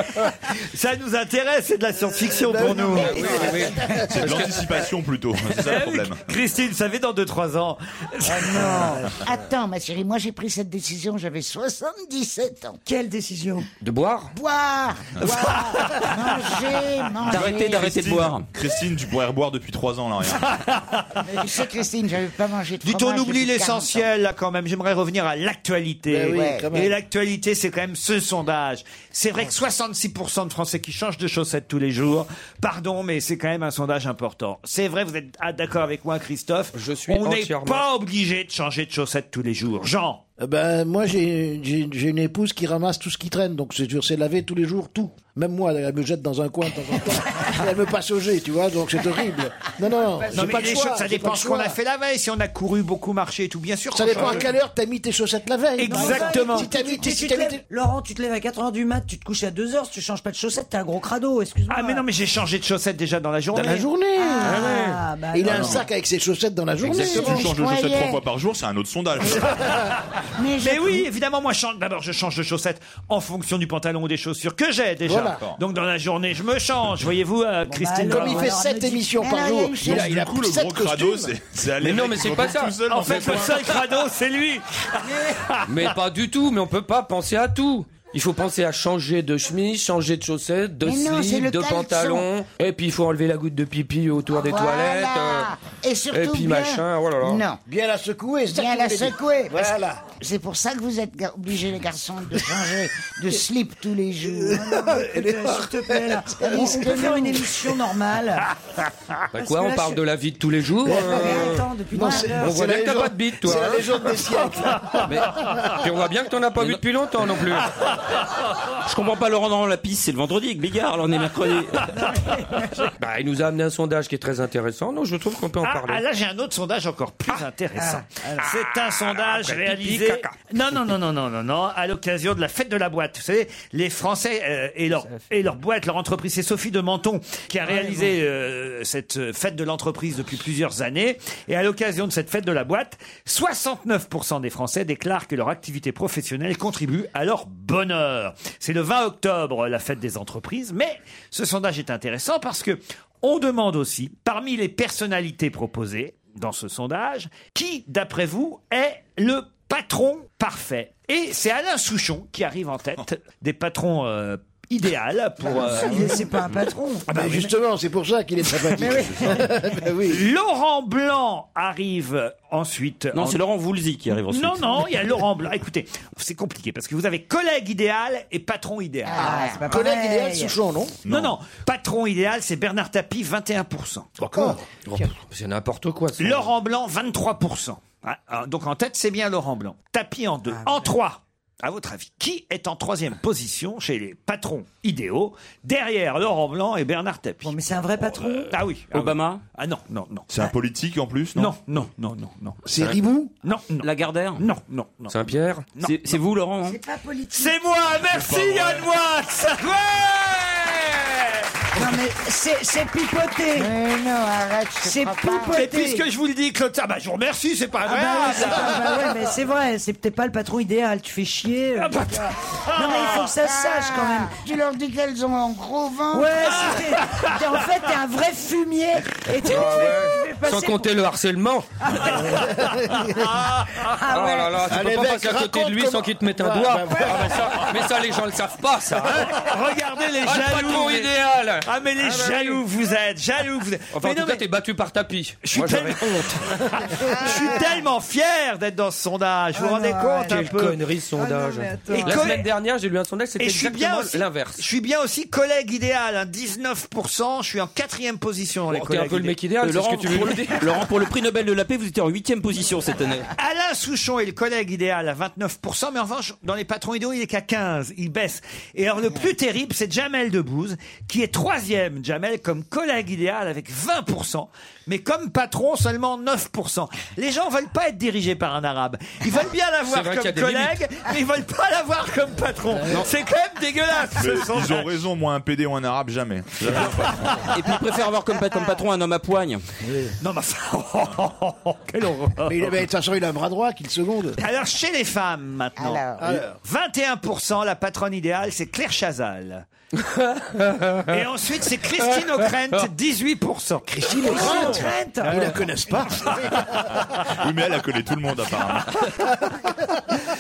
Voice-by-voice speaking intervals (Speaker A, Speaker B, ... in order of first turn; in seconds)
Speaker A: 0.5-3.5, 5.6-9.0, 15.2-16.5, 20.4-21.2, 22.8-40.2, 50.3-54.5, 55.8-56.8, 61.7-63.9, 70.6-78.5, 82.9-85.9, 125.6-166.2, 167.1-167.5, 170.1-173.4, 174.3-179.5, 181.1-184.1, 186.2-200.3, 201.3-202.6, 203.4-205.2, 205.8-206.2, 207.3-212.0, 215.5-219.1, 221.8-223.3, 226.5-227.6, 232.4-233.9, 239.3-244.4, 245.4-250.8, 251.9-252.5, 253.4-259.4, 263.4-284.9, 286.8-287.3, 290.2-292.8, 294.4-299.7, 301.1-304.9
Speaker B: 2.2-4.8, 26.1-26.9, 40.4-51.8, 53.9-57.6, 63.5-64.4, 65.3-67.5, 75.0-75.4, 78.0-81.4, 83.0-83.3, 97.7-100.0, 104.2-107.0, 110.8-115.9, 167.1-170.2, 179.6-181.0, 184.2-185.1, 202.6-203.3, 218.4-219.1, 232.3-233.2, 234.6-237.8, 239.0-239.5, 289.9-290.1, 292.5-294.4, 296.2-296.6, 303.9-307.0, 309.3-310.0
Speaker C: 3.0-4.6, 13.8-14.3, 36.7-37.9, 64.4-65.0, 81.8-83.2, 85.7-95.5, 96.1-97.5, 109.3-111.6, 112.4-113.9, 115.1-117.7, 123.0-126.0, 129.0-130.3, 184.9-186.5, 205.1-205.7, 229.4-231.8, 234.1-239.3, 240.2-242.6, 243.9-246.2, 250.3-254.7, 258.7-260.7, 279.9-280.8, 299.9-301.2, 302.0-302.9
Speaker D: 3.0-4.2, 8.2-12.8, 14.3-18.0, 21.3-24.1, 26.3-26.7, 66.9-68.2, 70.3-71.1, 79.2-80.1, 90.8-92.3, 94.3-97.6, 98.5-104.8, 106.4-107.5, 165.6-166.3, 179.1-179.7, 213.6-215.7, 223.3-226.7, 295.8-296.4
Speaker E: 4.1-6.2, 17.7-20.4, 67.0-69.6, 79.8-83.8, 181.1-181.4, 200.3-201.5, 208.1-208.9, 284.1-287.4, 307.4-309.1
Speaker F: 12.9-13.7, 50.2-50.6, 55.9-62.0, 64.2-65.8, 77.7-79.2, 104.5-108.5, 109.4-110.0, 110.9-112.6, 121.9-122.9, 127.8-128.5, 135.0-135.2, 137.7-138.1, 165.4-167.2, 179.1-180.6, 190.5-191.0, 197.4-198.5, 206.6-207.6, 211.8-213.7, 214.8-216.0, 217.8-224.3, 226.1-230.9, 231.8-232.4, 233.9-234.6, 247.1-247.6, 249.5-250.6, 251.1-252.3, 304.2-305.6
Speaker G: 17.3-18.5, 118.8-121.8, 173.1-175.0, 198.9-199.4, 203.8-204.4, 205.8-206.8, 259.6-263.3, 287.5-289.6